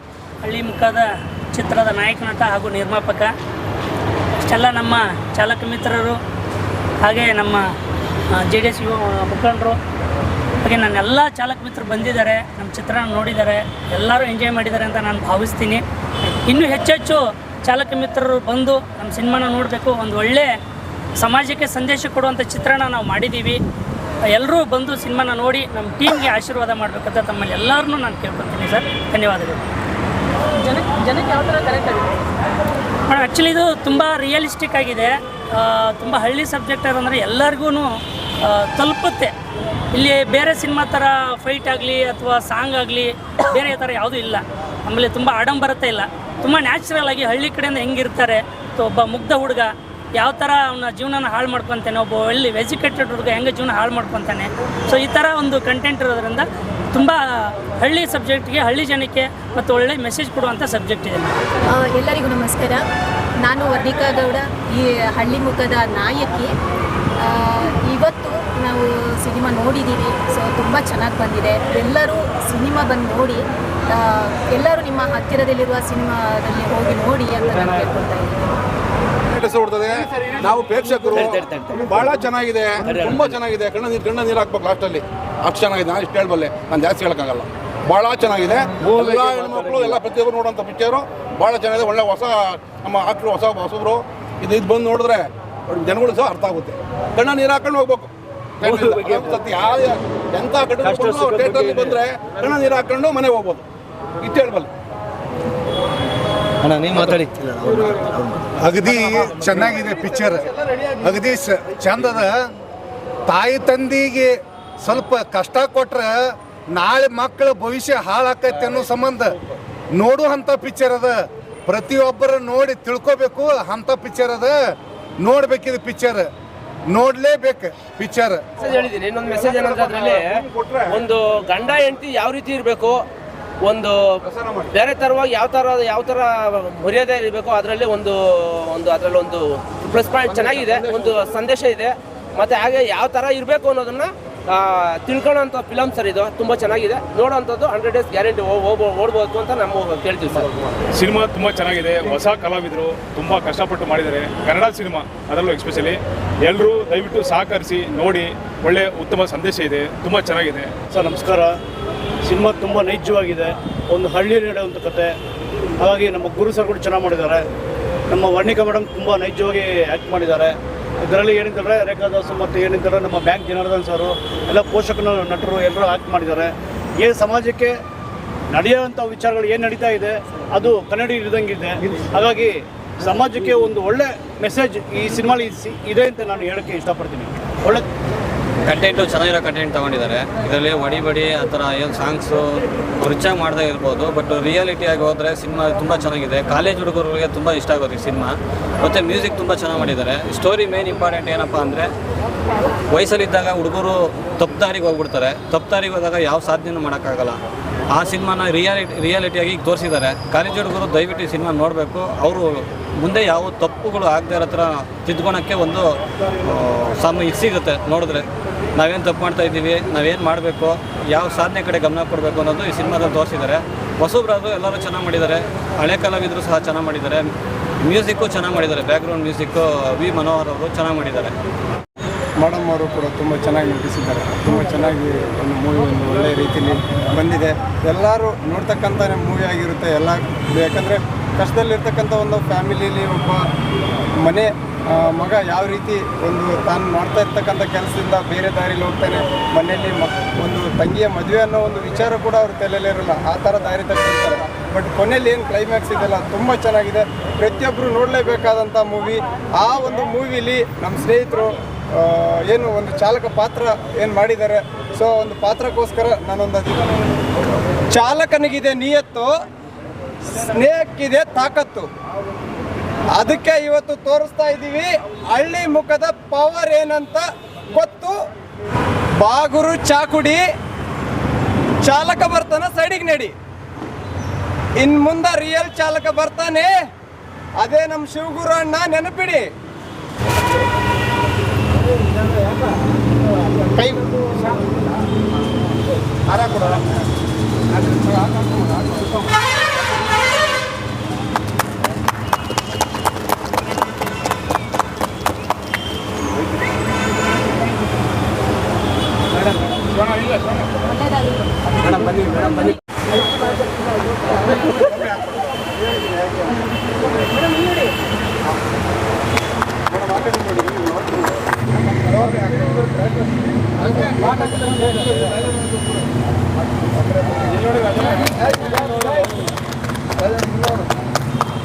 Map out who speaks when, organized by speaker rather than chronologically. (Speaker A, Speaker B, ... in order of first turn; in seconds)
Speaker A: 0.4-3.3, 4.4-6.2, 7.0-7.7, 8.3-9.8, 10.6-15.8, 16.5-20.5, 21.2-23.6, 24.3-29.7, 30.7-32.0, 33.1-39.3, 39.9-61.4
Speaker B: 61.7-62.9, 63.4-66.6, 67.2-78.6, 310.8-312.8
Speaker C: 79.3-98.1, 98.6-103.6, 104.2-104.7, 129.3-131.0, 134.3-134.7, 140.3-141.1, 296.4-296.7
Speaker D: 81.2-81.8, 82.8-83.4, 128.6-133.1, 133.6-134.2, 134.7-150.7
Speaker E: 98.6-99.4, 100.8-102.0, 160.9-161.6, 162.2-165.1, 165.8-167.4, 168.1-177.8, 178.5-187.9
Speaker F: 106.9-112.5, 113.3-119.4, 119.9-124.6, 125.2-126.3, 126.9-128.4
Speaker G: 150.9-160.7
Speaker H: 188.7-201.9, 202.9-207.4, 207.9-215.8, 216.4-227.3, 227.8-231.3
Speaker I: 232.4-243.4, 244.2-267.2, 267.9-269.3, 270.2-271.9, 273.1-278.2, 279.2-280.4, 281.8-283.3, 284.8-286.7, 287.6-289.4, 293.7-294.1, 319.9-321.3, 324.0-324.8, 327.1-329.1